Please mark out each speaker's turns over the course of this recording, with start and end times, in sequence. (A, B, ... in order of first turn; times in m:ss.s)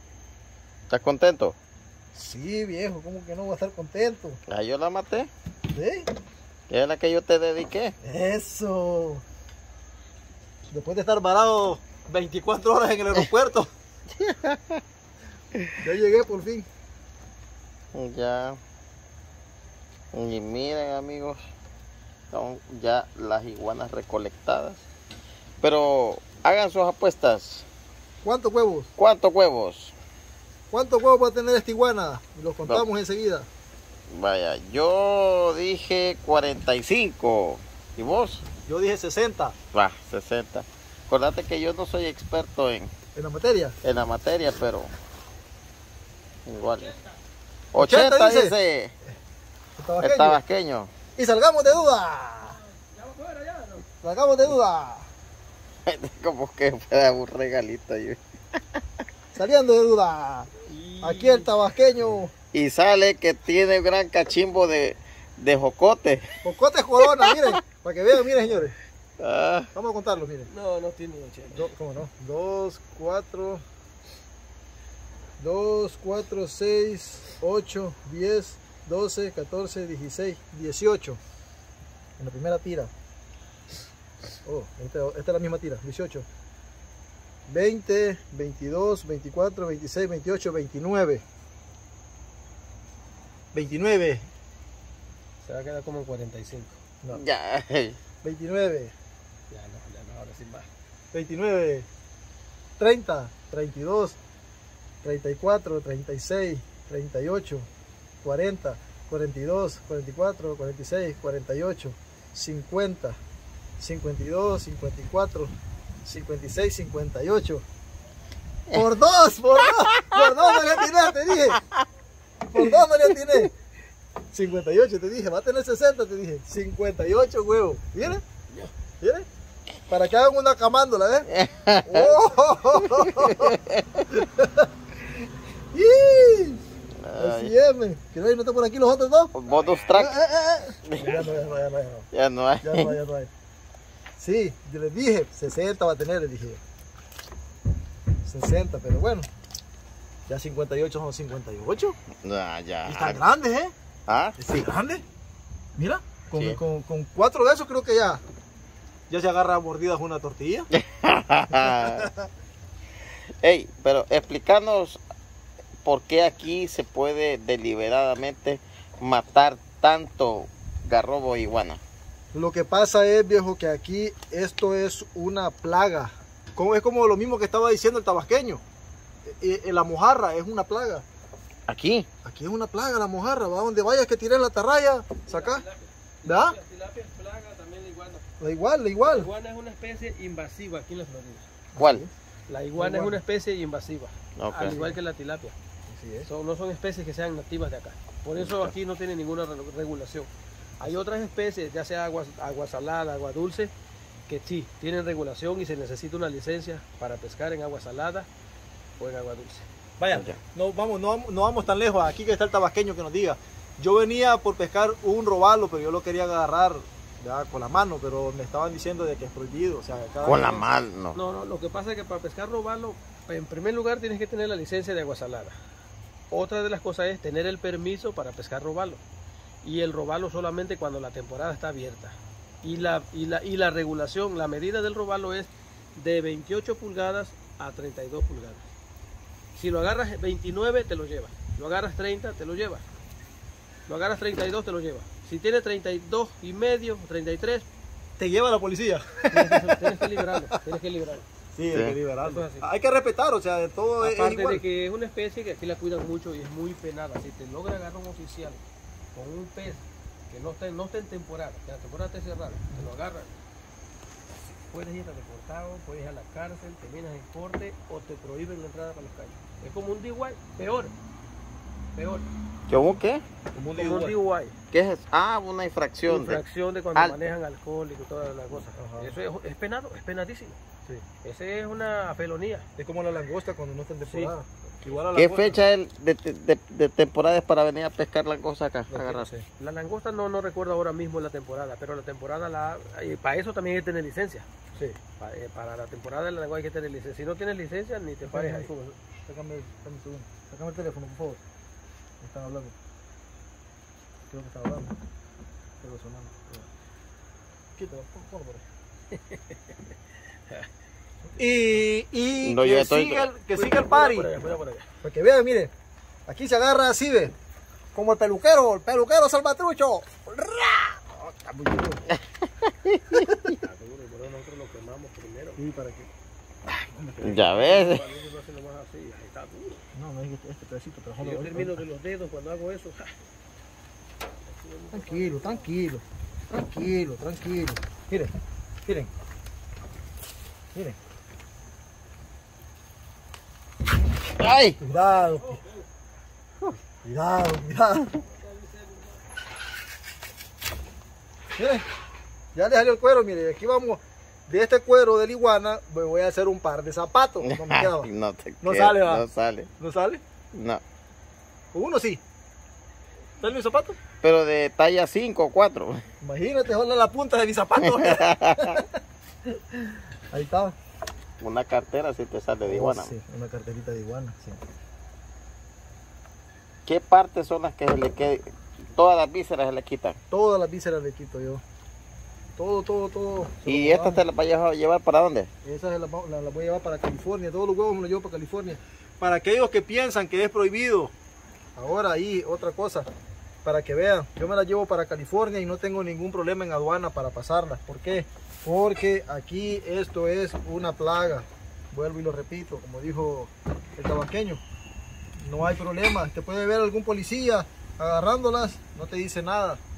0:00.9-0:01.6 A
0:02.1-0:04.4 B
0:04.5-0:05.3 A
0:05.7-0:06.1 B
0:06.7-0:08.0 A
0:08.0-0:09.2 B
0:10.7-0:13.7 B
0:14.2-0:14.8 A
0:15.8-0:16.7 B
0:17.9-0:18.6 A
0:20.1-0:21.4 A
0:22.3-0:24.8 A
0:25.6-0:27.7 A
0:28.2-0:28.9 B
0:29.0-0:30.0 A
0:30.7-0:33.5 B
0:34.1-0:38.4 A
0:38.7-0:39.6 B
0:39.7-0:42.9 A
0:43.2-0:43.8 B
0:43.8-0:44.9 A
0:46.5-0:47.0 A
0:47.7-0:48.9 A
0:47.8-0:48.6 B
0:49.8-0:50.4 B
0:50.0-0:50.9 A
0:51.2-0:52.6 B
0:52.9-0:53.8 C
0:54.0-0:55.1 B
0:55.9-0:58.6 A
0:59.3-1:00.5 B
1:00.7-1:01.5 C
1:01.0-1:02.3 B
1:02.5-1:06.3 A
1:06.4-1:08.8 B
1:09.2-1:09.7 A
1:09.7-1:10.5 B
1:10.5-1:11.7 C
1:11.5-1:13.6 B
1:15.4-1:21.2 B
1:22.2-1:22.9 B
1:24.4-1:26.3 B
1:27.5-1:31.2 B
1:33.5-1:34.3 B
1:35.4-1:36.8 C
1:37.1-1:38.0 A
1:38.2-1:38.9 B
1:39.5-1:40.7 C
1:41.1-1:41.9 B
1:42.8-1:44.2 B
1:45.0-1:47.7 B
1:48.2-1:53.2 B
1:53.8-1:55.5 B
1:56.0-1:57.6 B
1:58.7-2:01.6 B
2:02.5-2:03.5 B
2:04.3-2:08.2 B
2:09.0-2:09.3 B
2:09.9-2:11.3 B
2:11.3-2:12.1 A
2:11.9-2:13.6 B
2:12.8-2:14.0 A
2:14.1-2:14.7 B
2:15.7-2:16.6 B
2:17.0-2:17.5 A
2:17.2-2:19.3 B
2:19.4-2:20.2 A
2:19.5-2:19.9 C
2:20.0-2:22.1 B
2:21.0-2:21.6 C
2:22.1-2:22.9 A
2:22.6-2:23.3 B
2:24.2-2:26.6 B
2:28.2-2:29.3 B
2:30.3-2:32.0 B
2:32.2-2:33.2 A
2:32.9-2:33.7 B
2:34.1-2:34.4 A
2:34.4-2:35.0 B
2:35.8-2:38.2 B
2:36.3-2:36.6 A
2:39.1-2:40.7 B
2:40.8-2:42.1 A
2:41.6-2:42.3 B
2:43.4-2:45.0 A
2:45.8-2:51.8 A
2:52.3-2:58.6 B
2:59.2-3:01.0 B
3:01.7-3:02.1 A
3:02.2-3:05.6 B
3:05.3-3:08.2 C
3:06.2-3:06.6 B
3:08.4-3:09.3 B
3:09.0-3:11.5 C
3:11.8-3:12.1 B
3:11.8-3:12.0 A
3:12.5-3:15.6 C
3:12.8-3:13.2 B
3:14.4-3:14.8 A
3:14.7-3:15.0 B
3:15.9-3:16.3 B
3:16.3-3:23.7 C
3:18.4-3:18.7 A
3:24.3-3:28.3 C
3:29.0-3:29.7 C
3:30.0-3:40.7 B
3:30.1-3:30.4 A
3:40.2-3:41.2 A
3:41.2-3:45.6 C
3:46.3-3:49.0 C
3:49.6-3:58.6 C
3:59.6-4:02.8 C
4:03.9-4:07.7 C
4:08.2-4:10.6 B
4:09.3-4:11.2 C
4:11.5-4:14.6 B
4:11.7-4:12.0 A
4:12.2-4:12.7 C
4:14.0-4:23.3 C
4:24.6-4:30.9 C
4:32.0-4:32.3 C
4:32.7-4:33.2 A
4:33.5-4:34.2 B
4:33.8-4:34.6 C
4:34.7-4:36.4 A
4:36.0-4:40.6 C
4:38.8-4:39.2 B
4:41.2-4:42.7 C
4:42.8-4:45.6 B
4:44.1-4:44.4 C
4:45.1-4:49.3 A
4:48.9-4:49.5 B
4:49.0-4:54.5 C
4:55.2-4:59.0 C
4:58.3-4:58.7 B
4:59.3-5:01.4 B
5:02.2-5:02.7 B
5:04.3-5:05.0 B
5:05.8-5:06.7 B
5:07.8-5:08.6 B
5:09.1-5:09.8 C
5:11.4-5:14.4 B
5:12.4-5:13.3 A
5:13.5-5:14.9 C
5:15.0-5:15.7 B
5:16.3-5:17.3 B
5:17.9-5:22.1 B
5:22.8-5:23.2 A
5:23.1-5:23.6 B
5:23.6-5:25.6 C
5:25.6-5:26.1 B
5:26.9-5:27.5 B
5:27.2-5:28.0 A
5:27.2-5:29.9 C
5:29.9-5:31.8 B
5:31.2-5:33.2 C
5:34.5-5:35.7 C
5:34.9-5:38.3 B
5:38.8-5:39.1 B
5:44.4-5:44.8 A
5:44.8-5:45.6 B
5:45.1-5:45.8 C
5:47.0-5:48.2 B
5:48.2-5:49.2 C
5:51.6-5:51.8 B
5:52.5-5:58.1 B
5:57.4-5:59.7 A
5:58.6-5:59.2 B
5:59.8-6:00.2 B
6:00.5-6:00.8 A
6:01.7-6:02.2 B
6:03.4-6:04.0 B
6:04.2-6:06.0 A
6:06.2-6:08.9 B
6:08.2-6:08.6 A
6:09.7-6:10.8 B
6:11.4-6:13.1 A
6:12.6-6:14.6 B
6:16.9-6:20.2 A
6:20.3-6:21.6 B
6:22.6-6:24.2 B
6:23.7-6:25.5 A
6:25.6-6:31.1 B
6:31.8-6:33.1 B
6:33.6-6:44.6 B
6:45.4-6:49.8 B